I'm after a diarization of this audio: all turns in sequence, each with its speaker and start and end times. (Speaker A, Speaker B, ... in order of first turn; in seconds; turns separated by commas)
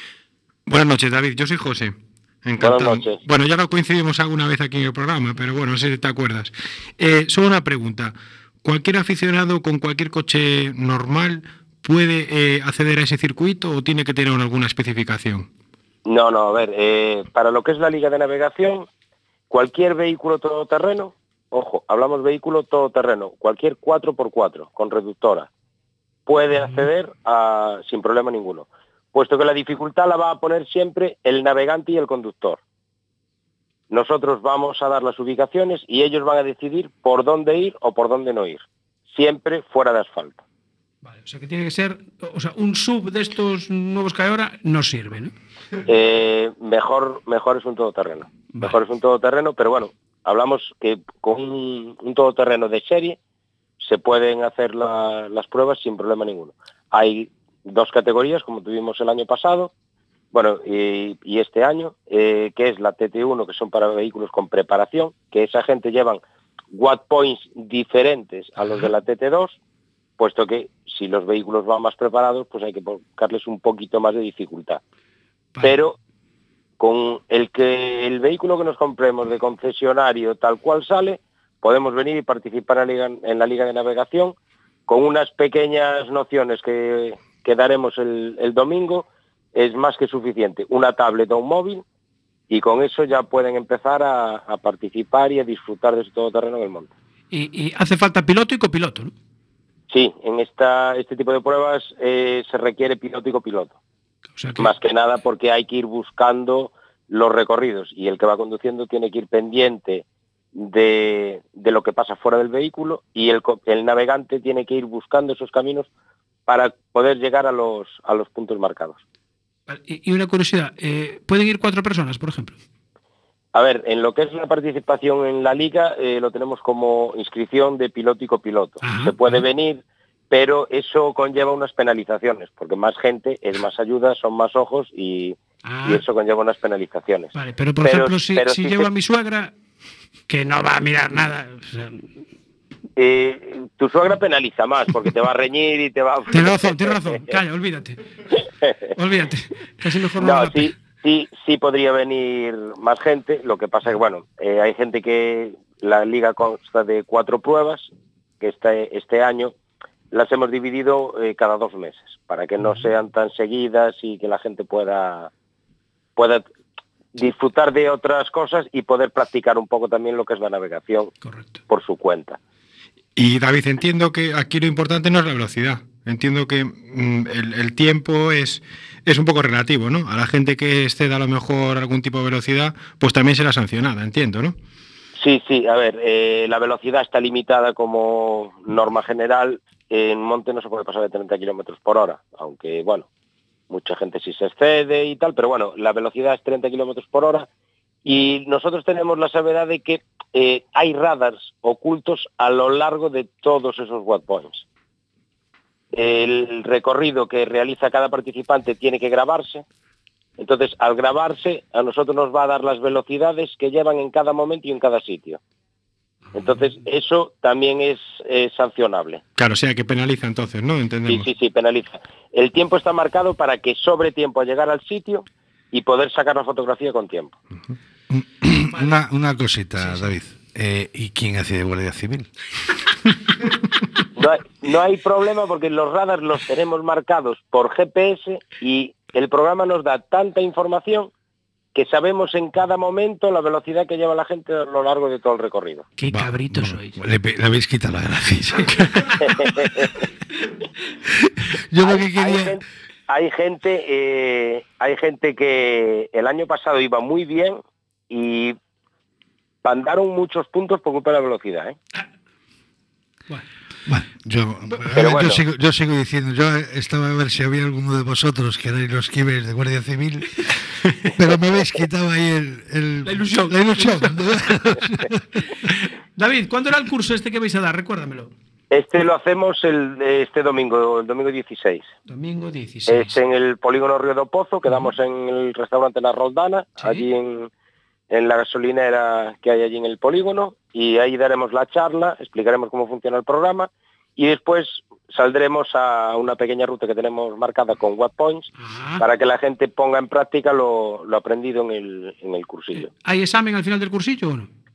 Speaker A: 0.7-15.5, Speaker B: 2.6-3.2, Speaker B: 16.1-18.9, Speaker B: 19.5-25.5, Speaker B: 26.3-32.6, Speaker B: 33.9-40.4, Speaker C: 41.0-45.3, Speaker B: 45.9-53.2, Speaker B: 53.8-59.7, Speaker B: 60.3-66.2, Speaker B: 66.7-69.6, Speaker C: 68.6-68.9, Speaker B: 70.2-74.8, Speaker B: 75.6-76.0, Speaker B: 76.8-84.3, Speaker B: 84.9-91.8, Speaker B: 92.5-96.9, Speaker C: 97.3-99.1, Speaker B: 99.9-103.7, Speaker C: 104.4-104.7, Speaker B: 104.6-110.0, Speaker B: 110.5-115.9, Speaker B: 116.5-119.0, Speaker C: 119.7-122.6, Speaker B: 123.5-138.9, Speaker C: 128.8-129.4, Speaker C: 135.7-136.0, Speaker C: 137.3-139.5, Speaker C: 140.3-142.1, Speaker B: 143.0-147.0, Speaker C: 146.3-148.0, Speaker C: 149.0-150.7, Speaker B: 150.2-157.9, Speaker B: 158.4-159.5, Speaker B: 160.1-165.3, Speaker B: 166.2-166.4, Speaker B: 167.2-171.1, Speaker C: 171.2-171.6, Speaker B: 171.7-172.4, Speaker A: 173.2-184.6, Speaker B: 185.2-193.1, Speaker B: 193.7-197.5, Speaker B: 198.1-204.6, Speaker B: 205.9-209.6, Speaker B: 210.4-215.4, Speaker B: 216.3-219.2, Speaker A: 219.4-221.3, Speaker B: 221.1-227.4, Speaker D: 228.1-232.3, Speaker B: 234.2-241.1, Speaker B: 241.8-245.8, Speaker C: 246.0-246.9, Speaker D: 246.1-249.7, Speaker B: 249.2-249.9, Speaker D: 251.7-252.6, Speaker B: 251.8-258.6, Speaker B: 259.6-261.8, Speaker D: 263.9-275.1, Speaker B: 264.9-265.4, Speaker C: 273.1-274.3, Speaker C: 276.2-278.3, Speaker B: 278.7-281.9, Speaker C: 282.1-283.2, Speaker B: 282.9-287.5, Speaker C: 286.8-287.1, Speaker B: 288.1-302.9, Speaker C: 298.6-299.1, Speaker C: 302.8-304.5